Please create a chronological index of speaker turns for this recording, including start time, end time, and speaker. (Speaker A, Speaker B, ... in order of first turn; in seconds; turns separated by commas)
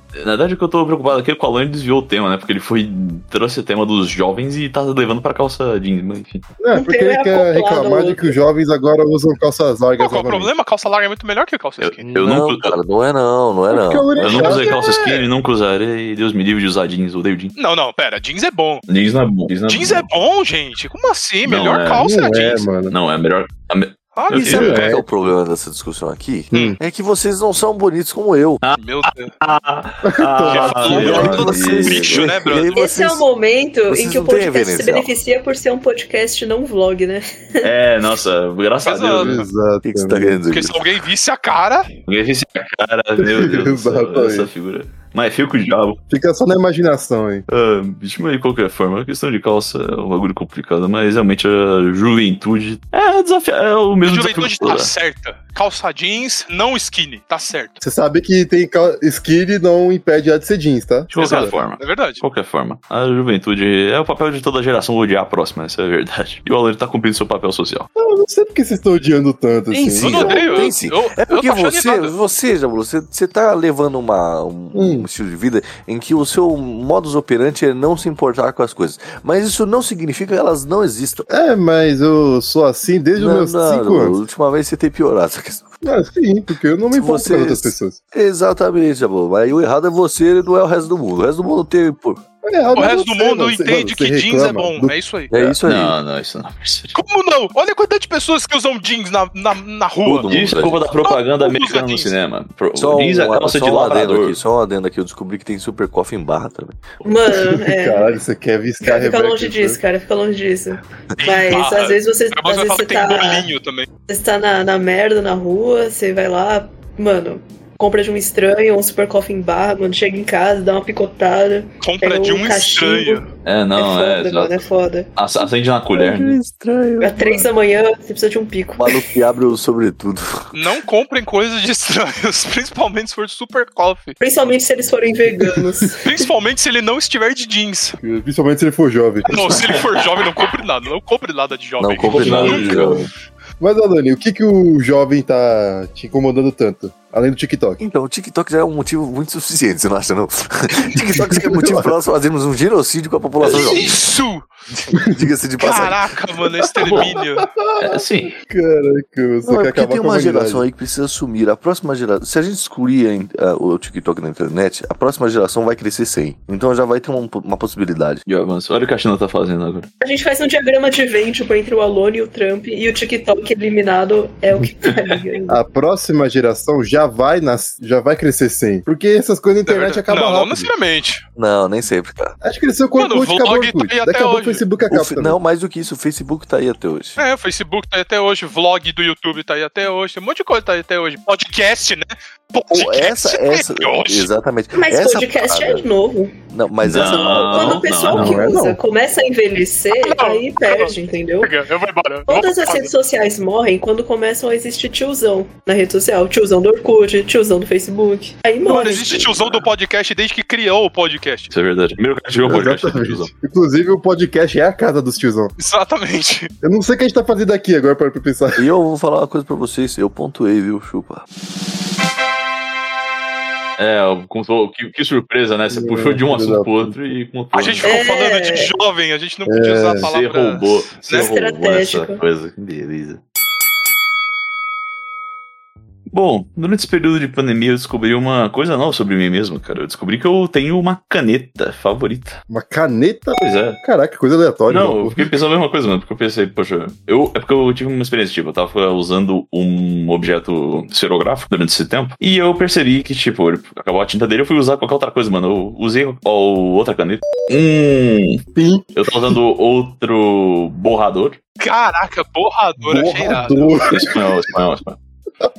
Speaker A: 0.1-6.5, Speaker B: 6.6-10.5, Speaker C: 6.7-8.4, Speaker D: 10.0-12.0, Speaker A: 11.8-12.8, Speaker E: 12.0-14.6, Speaker B: 13.7-15.1, Speaker A: 14.2-17.6, Speaker D: 17.6-18.8, Speaker A: 18.9-20.1, Speaker D: 19.7-22.6, Speaker A: 21.4-25.0, Speaker B: 22.0-22.9, Speaker D: 24.2-25.0, Speaker E: 24.3-28.6, Speaker B: 24.4-25.0, Speaker A: 28.6-32.5, Speaker D: 28.8-29.3, Speaker B: 30.1-31.6, Speaker D: 30.5-32.9, Speaker E: 31.0-33.2, Speaker C: 32.7-37.7, Speaker E: 33.9-35.1, Speaker A: 37.6-39.4, Speaker D: 38.8-39.5, Speaker B: 39.1-40.4, Speaker E: 39.9-40.9, Speaker D: 40.5-41.9, Speaker A: 42.1-46.0, Speaker B: 43.2-44.5, Speaker B: 46.1-47.5, Speaker A: 47.5-54.9, Speaker D: 54.0-57.8, Speaker B: 57.8-61.5, Speaker D: 61.1-62.2, Speaker A: 61.1-67.9, Speaker B: 68.0-70.7, Speaker E: 69.7-81.3, Speaker D: 70.0-72.1, Speaker B: 74.8-75.1, Speaker B: 81.3-84.2, Speaker E: 83.2-85.7, Speaker B: 85.8-88.0, Speaker E: 86.9-92.2, Speaker B: 92.4-95.0, Speaker D: 92.7-95.3, Speaker E: 95.3-96.0, Speaker A: 95.6-97.0, Speaker D: 97.0-100.3, Speaker E: 100.0-100.9, Speaker A: 100.3-104.4, Speaker D: 101.0-102.1, Speaker E: 102.8-107.0, Speaker C: 107.0-108.1, Speaker B: 107.5-109.8, Speaker C: 108.8-113.5, Speaker D: 111.2-113.9, Speaker C: 114.1-123.2, Speaker D: 121.8-123.3, Speaker A: 123.5-124.6, Speaker C: 123.8-125.1, Speaker A: 125.2-126.4, Speaker E: 126.0-127.5, Speaker C: 127.0-129.1, Speaker E: 128.8-130.8, Speaker D: 130.5-134.2, Speaker C: 134.2-136.2, Speaker B: 135.4-135.7, Speaker D: 136.0-138.0, Speaker B: 138.0-139.4, Speaker A: 139.3-140.1, Speaker D: 139.3-143.1, Speaker E: 141.8-143.1, Speaker A: 142.0-143.1, Speaker B: 143.6-147.8, Speaker E: 147.8-154.0, Speaker B: 151.3-151.9, Speaker A: 153.4-153.9, Speaker D: 153.5-154.5, Speaker E: 154.7-156.2, Speaker D: 155.6-157.5, Speaker B: 156.7-160.6, Speaker A: 156.8-157.2, Speaker A: 157.8-158.3, Speaker E: 159.4-168.2, Speaker A: 168.3-169.9, Speaker C: 170.0-175.6, Speaker B: 175.5-180.7, Speaker D: 179.7-181.2, Speaker E: 181.4-182.4, Speaker B: 182.4-185.4, Speaker D: 183.0-184.6, Speaker E: 184.9-187.2, Speaker D: 187.2-194.3, Speaker E: 192.7-195.9, Speaker C: 194.7-196.3, Speaker E: 196.5-197.9, Speaker A: 196.8-198.5, Speaker C: 196.9-201.6, Speaker B: 198.1-198.8, Speaker D: 199.9-200.9, Speaker D: 201.4-202.9, Speaker C: 202.3-209.4, Speaker D: 208.6-211.5, Speaker A: 211.5-213.3, Speaker B: 212.4-215.6, Speaker D: 215.6-216.5, Speaker B: 216.6-218.6, Speaker E: 218.6-221.3, Speaker A: 223.8-228.1, Speaker B: 225.7-226.9, Speaker D: 227.5-231.0, Speaker C: 227.8-228.7, Speaker B: 229.5-230.1, Speaker A: 230.0-233.2, Speaker C: 231.1-232.2, Speaker A: 236.1-242.4, Speaker B: 242.5-245.3, Speaker A: 243.4-243.8, Speaker A: 244.7-258.4, Speaker B: 258.6-259.4, Speaker A: 259.0-261.4, Speaker D: 261.6-263.9, Speaker B: 262.8-264.4, Speaker A: 263.9-265.0